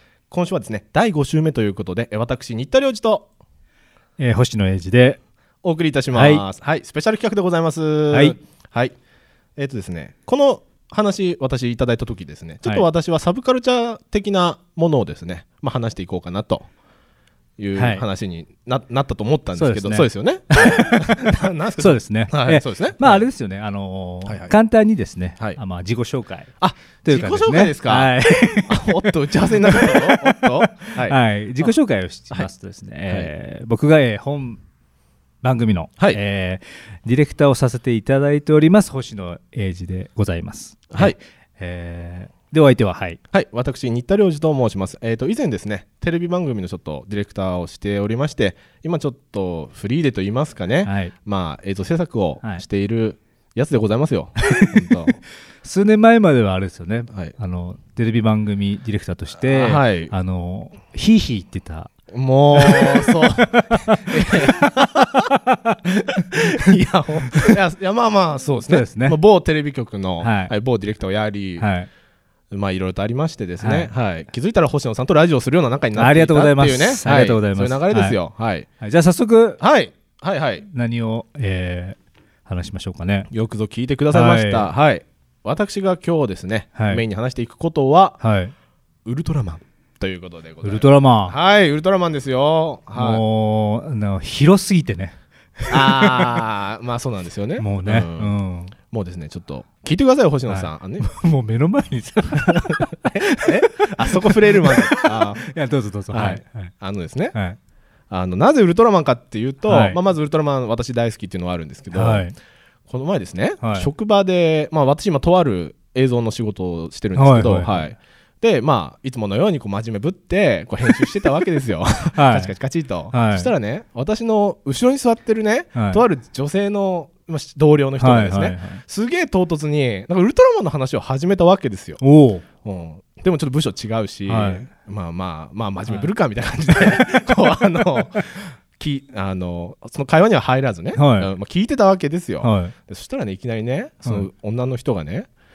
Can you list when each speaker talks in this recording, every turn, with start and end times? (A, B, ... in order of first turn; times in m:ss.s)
0:00.3-0:03.3 A
0:04.2-0:05.2 B
0:05.6-0:09.0 A
0:06.1-0:06.4 B
0:08.1-0:08.4 B
0:09.6-0:16.7 A
0:17.6-0:23.3 A
0:17.8-0:18.0 B
0:19.6-0:26.5 B
0:24.3-0:24.5 A
0:26.6-0:28.1 A
0:27.0-0:34.6 B
0:28.7-0:31.7 A
0:35.4-0:43.2 B
0:40.9-0:41.2 A
0:43.3-0:55.2 A
0:50.8-0:51.1 B
0:54.5-0:55.1 B
0:55.6-1:01.9 B
0:59.5-1:00.1 A
1:02.1-1:05.3 A
1:02.5-1:07.6 B
1:06.0-1:11.7 A
1:08.6-1:09.2 B
1:10.2-1:10.5 B
1:11.6-1:11.9 B
1:12.5-1:18.7 A
1:13.6-1:13.9 B
1:15.9-1:18.2 B
1:18.8-1:19.6 B
1:19.6-1:20.6 A
1:20.7-1:23.3 B
1:23.3-1:28.2 A
1:24.1-1:24.7 B
1:26.8-1:27.0 B
1:28.2-1:28.5 B
1:29.0-1:33.2 A
1:30.6-1:31.3 B
1:32.9-1:36.4 B
1:35.7-1:38.3 A
1:37.6-1:38.7 B
1:38.9-1:41.1 A
1:40.5-1:46.7 B
1:42.5-1:45.5 A
1:46.1-1:47.3 A
1:48.1-1:52.2 A
1:49.6-1:50.0 B
1:51.9-1:52.3 B
1:52.9-2:12.0 A
1:53.6-1:53.9 B
1:57.2-1:57.8 B
2:02.2-2:02.5 B
2:03.1-2:03.5 B
2:05.8-2:06.0 B
2:08.0-2:08.8 B
2:12.0-2:12.4 B
2:12.6-2:25.3 A
2:14.3-2:14.7 B
2:16.8-2:18.0 B
2:20.9-2:21.3 B
2:22.4-2:22.7 B